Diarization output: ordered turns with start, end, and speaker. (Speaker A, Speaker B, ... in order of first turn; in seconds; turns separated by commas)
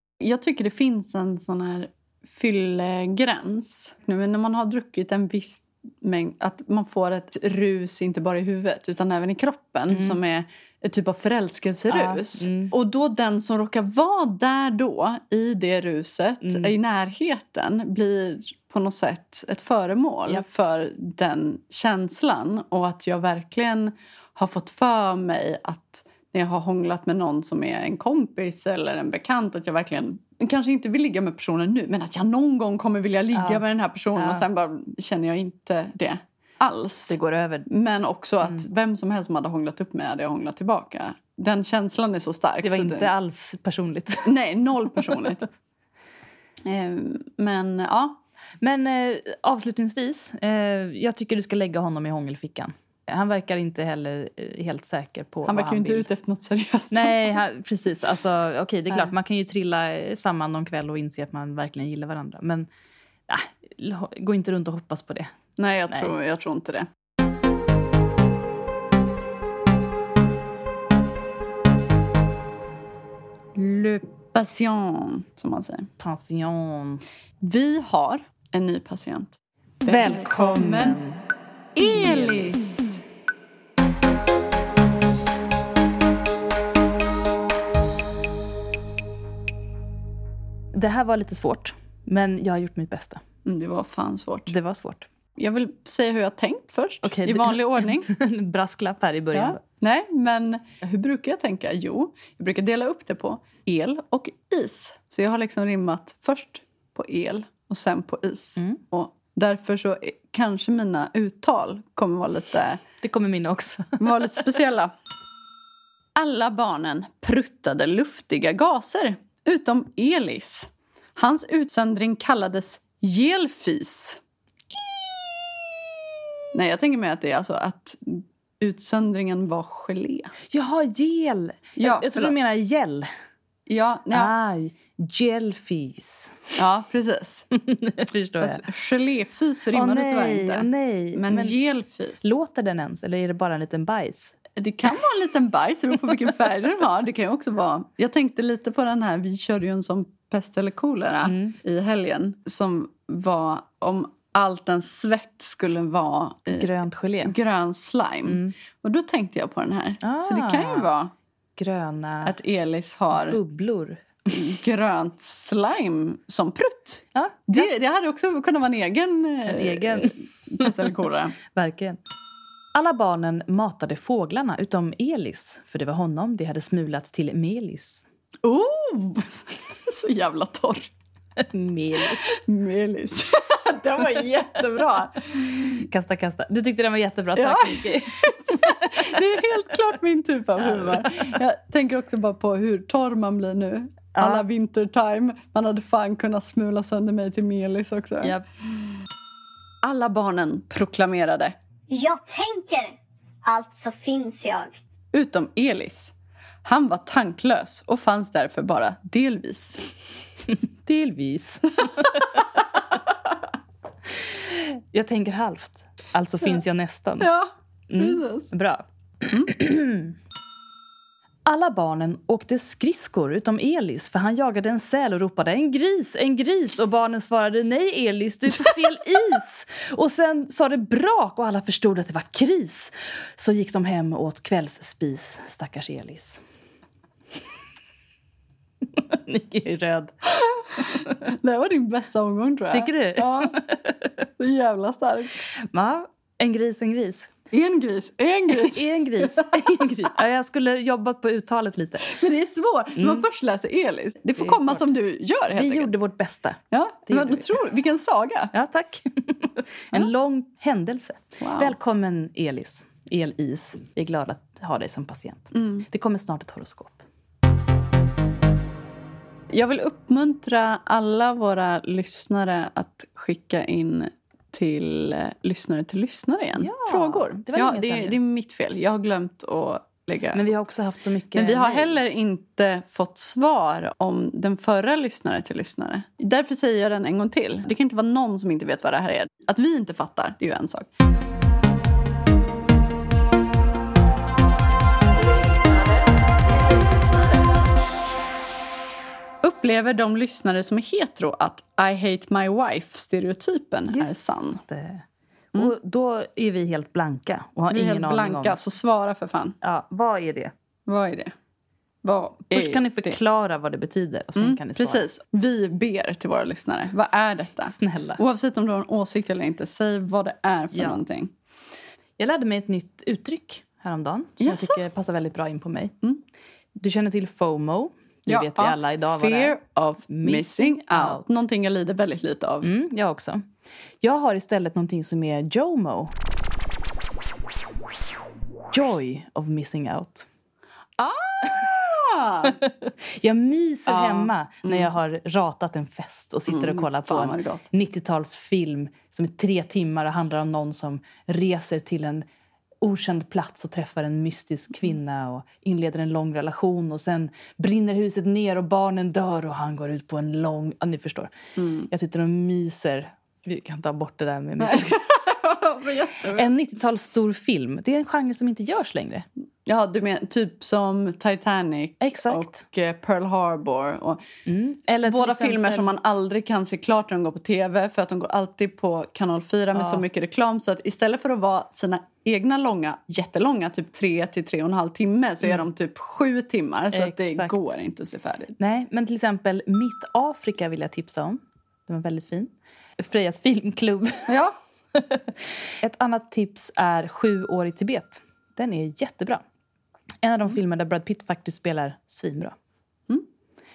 Speaker A: 0.2-37.1, Speaker B: 9.9-10.2, Speaker B: 11.9-12.7, Speaker B: 16.4-16.7, Speaker B: 33.3-34.5, Speaker B: 37.1-37.7, Speaker A: 37.7-43.1, Speaker B: 42.6-44.3, Speaker A: 44.2-45.4, Speaker A: 46.6-48.2, Speaker B: 48.6-56.0, Speaker A: 55.4-57.4, Speaker B: 56.9-62.7, Speaker B: 63.3-65.4, Speaker A: 65.6-66.9, Speaker B: 65.9-66.1, Speaker A: 73.5-75.9, Speaker B: 76.0-77.0, Speaker A: 77.4-81.0, Speaker B: 79.8-81.2, Speaker A: 81.7-83.0, Speaker B: 82.0-82.6, Speaker B: 90.7-93.2, Speaker A: 93.4-94.5, Speaker B: 94.5-95.1, Speaker A: 95.3-98.1, Speaker B: 97.0-99.6, Speaker A: 99.3-112.8, Speaker B: 113.0-114.3, Speaker A: 114.0-114.9, Speaker A: 116.2-124.2, Speaker A: 124.7-125.8, Speaker A: 126.5-130.3, Speaker B: 130.5-133.1, Speaker A: 131.8-132.3, Speaker A: 133.7-134.3, Speaker B: 134.1-136.6, Speaker A: 136.6-137.4, Speaker B: 137.5-138.6, Speaker A: 138.4-142.3, Speaker B: 139.7-141.5, Speaker B: 142.2-144.4, Speaker A: 144.6-161.1, Speaker B: 151.2-151.6, Speaker B: 156.5-157.3, Speaker B: 158.2-158.5, Speaker B: 160.0-160.9, Speaker B: 161.6-162.3, Speaker A: 162.2-163.4, Speaker B: 163.1-164.3, Speaker A: 164.3-171.3, Speaker B: 167.1-167.7, Speaker B: 169.4-170.9, Speaker B: 171.5-172.0, Speaker B: 172.7-178.0, Speaker A: 178.4-180.9, Speaker B: 181.4-182.4, Speaker A: 182.2-185.8, Speaker B: 185.7-189.4, Speaker A: 187.3-198.4, Speaker B: 190.6-191.4, Speaker B: 194.2-194.4, Speaker A: 199.8-201.6, Speaker C: 201.9-204.7, Speaker A: 205.1-206.1, Speaker A: 206.6-209.8, Speaker B: 210.8-212.4, Speaker B: 214.2-217.3, Speaker A: 217.2-218.5, Speaker B: 217.9-218.8, Speaker B: 219.4-220.1, Speaker B: 221.4-236.4, Speaker B: 238.9-240.1, Speaker A: 240.5-243.5, Speaker B: 240.8-241.1, Speaker B: 242.7-244.2, Speaker A: 244.4-245.4, Speaker B: 245.6-247.3, Speaker A: 247.5-249.8, Speaker B: 248.5-252.1, Speaker A: 252.0-255.9, Speaker B: 252.9-253.2, Speaker B: 254.4-254.9, Speaker B: 255.5-257.5, Speaker A: 256.7-258.5, Speaker B: 258.5-267.0, Speaker A: 261.4-261.7, Speaker A: 265.5-265.9, Speaker A: 269.5-280.5, Speaker B: 276.6-278.2, Speaker B: 280.3-282.0, Speaker A: 281.3-290.9, Speaker B: 295.4-297.0, Speaker A: 299.4-304.6, Speaker B: 303.9-308.6, Speaker A: 307.7-309.6, Speaker B: 309.6-310.5, Speaker A: 310.9-311.3, Speaker A: 312.0-313.2, Speaker B: 312.5-315.0, Speaker A: 314.4-321.3, Speaker B: 317.6-318.2, Speaker B: 320.7-321.0, Speaker B: 322.2-325.9, Speaker A: 324.4-324.8, Speaker B: 326.8-329.6, Speaker A: 328.3-332.7, Speaker B: 330.1-331.4, Speaker B: 332.6-333.5, Speaker B: 334.0-336.1, Speaker B: 338.7-340.3, Speaker A: 341.0-342.5, Speaker B: 342.4-352.2, Speaker A: 343.9-344.9, Speaker A: 346.5-347.6, Speaker B: 352.8-361.3, Speaker A: 361.6-361.9, Speaker B: 361.9-365.0, Speaker A: 364.6-366.5, Speaker B: 366.3-369.2, Speaker A: 369.6-374.2, Speaker B: 372.0-372.6, Speaker B: 374.4-375.9, Speaker A: 375.1-388.6, Speaker B: 379.7-380.0, Speaker B: 386.9-387.7, Speaker B: 388.6-394.3, Speaker A: 394.3-394.6, Speaker B: 394.9-399.4, Speaker B: 400.2-402.5